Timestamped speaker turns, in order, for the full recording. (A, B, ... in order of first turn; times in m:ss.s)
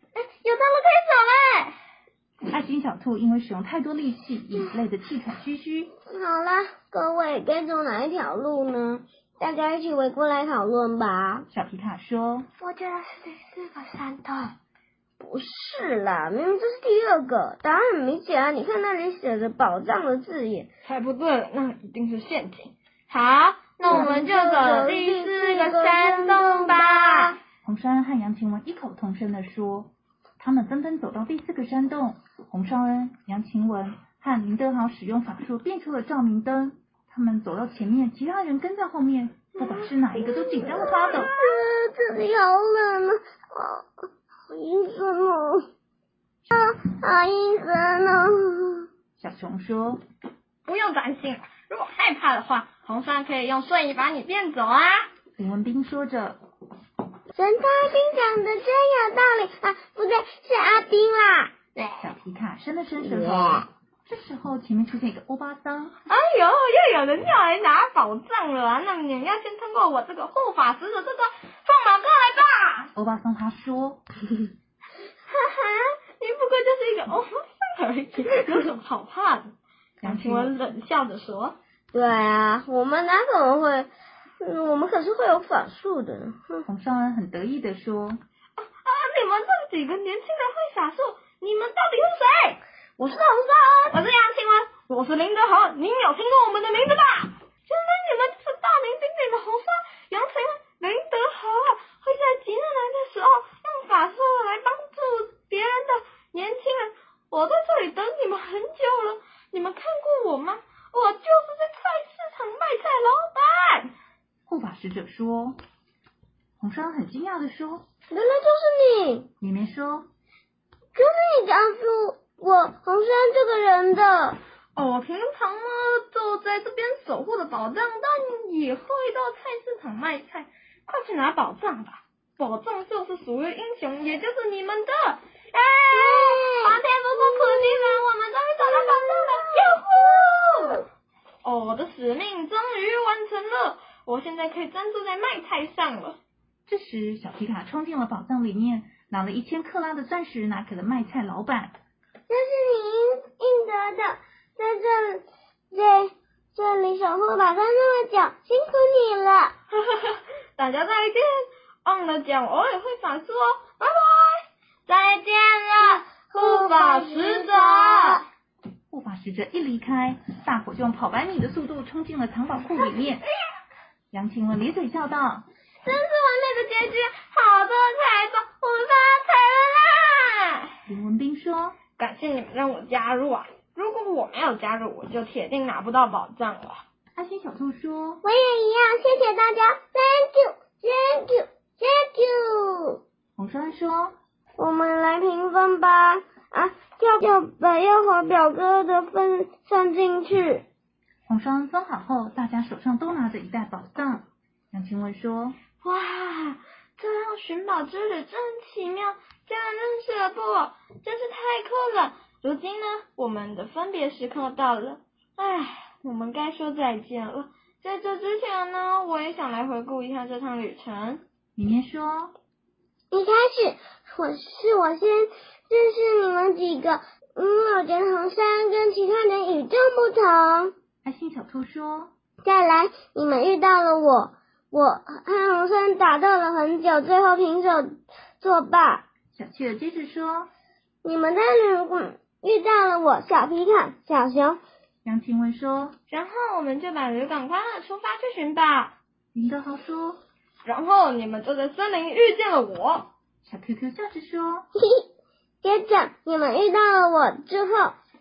0:00.4-0:00.8 A
0:00.4-0:01.7 B
0:02.5-0:05.9 C
0:06.1-0:11.5 B
0:11.5-0:12.5 C
0:12.6-0:14.5 B
0:15.2-0:20.7 B
0:20.8-0:27.4 A
0:23.9-0:27.4 B
0:27.6-0:41.3 C
0:40.2-0:45.7 B
0:46.5-0:48.9 B
0:49.2-0:50.0 C
0:50.6-0:55.1 A
0:55.4-0:56.4 C
0:57.3-1:01.5 B
1:01.8-1:02.0 A
1:02.0-1:06.0 C
1:03.0-1:03.6 B
1:06.1-1:12.9 A
1:12.9-1:14.0 C
1:15.3-1:19.5 A
1:20.0-1:20.5 C
1:20.0-1:21.6 A
1:21.9-1:26.6 B
1:26.6-1:28.2 C
1:28.6-1:32.6 A
1:33.0-1:33.9 B
1:33.9-1:53.9 A
1:54.5-1:55.6 C
1:56.6-1:57.8 C
1:58.1-1:59.3 B
1:59.4-2:00.1 C
2:00.9-2:04.4 B
2:04.8-2:20.8 A
2:15.9-2:18.0 B
2:18.8-2:19.7 B
2:21.4-2:26.2 A
2:26.7-2:31.7 C
2:32.3-2:39.6 B
2:39.7-2:48.2 A
2:46.3-2:48.2 B
2:48.9-2:53.2 C
2:54.1-2:55.4 C
2:55.8-3:00.7 A
3:00.9-3:01.8 C
3:02.0-3:06.8 A
3:07.2-3:08.2 C
3:08.2-3:13.0 B
3:13.4-3:14.1 C
3:14.6-3:20.6 B
3:21.3-3:25.6 C
3:25.8-3:41.2 A
3:41.6-3:42.3 C
3:43.1-3:50.7 B
3:51.0-3:52.1 C
3:52.4-3:59.0 B
3:59.3-4:00.5 C
4:01.0-4:04.6 B
4:05.0-4:06.0 C
4:06.1-4:08.9 A
4:09.3-4:10.2 C
4:10.6-4:13.1 A
4:13.4-4:14.6 C
4:14.8-4:15.1 B
4:15.6-4:18.0 B